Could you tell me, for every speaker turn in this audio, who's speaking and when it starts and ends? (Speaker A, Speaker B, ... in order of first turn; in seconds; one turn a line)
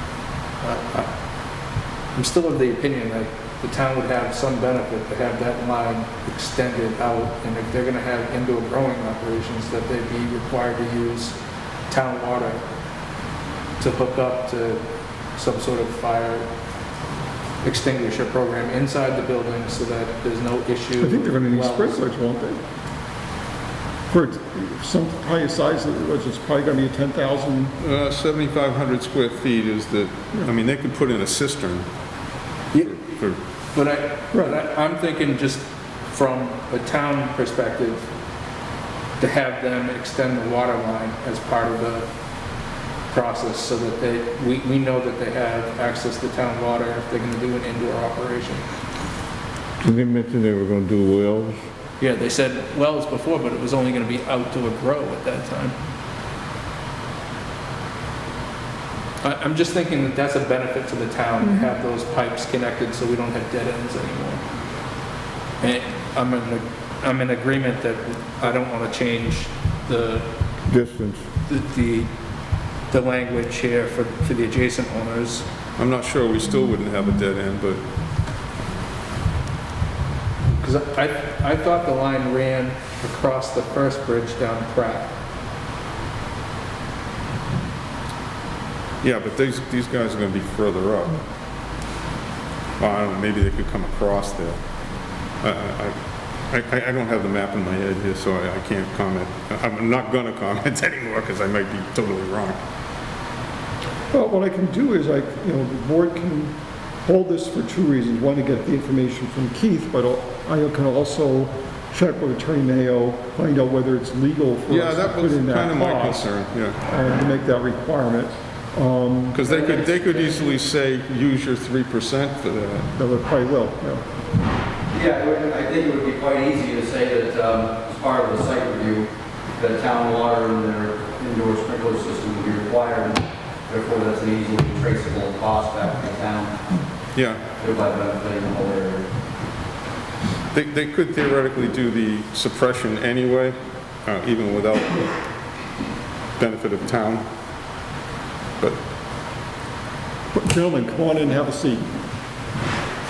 Speaker A: 0.6-1.1
Speaker A: 2.1-11.3
Speaker A: 11.9-12.6
Speaker A: 13.8-14.8
Speaker A: 15.3-16.4
Speaker A: 17.6-22.0
Speaker B: 21.0-22.6
Speaker B: 24.1-27.7
Speaker C: 27.8-31.9
Speaker A: 32.7-33.0
Speaker C: 32.8-33.4
Speaker A: 33.7-38.0
Speaker B: 34.3-34.6
Speaker A: 39.2-42.1
Speaker A: 43.1-48.6
Speaker D: 49.8-51.6
Speaker A: 52.0-55.7
Speaker A: 59.2-64.4
Speaker A: 65.6-70.2
Speaker D: 70.7-71.2
Speaker A: 71.5-72.1
Speaker A: 72.9-75.5
Speaker C: 75.8-77.8
Speaker A: 80.6-85.1
Speaker C: 89.0-91.2
Speaker C: 92.8-94.6
Speaker C: 95.4-96.0
Speaker C: 96.5-102.6
Speaker B: 104.1-119.5
Speaker C: 114.7-116.8
Speaker C: 119.3-122.9
Speaker E: 119.5-120.3
Speaker B: 123.0-124.0
Speaker E: 124.9-136.6
Speaker C: 137.1-137.4
Speaker E: 137.6-139.1
Speaker C: 140.5-145.1
Speaker C: 146.4-147.2
Speaker B: 150.3-151.9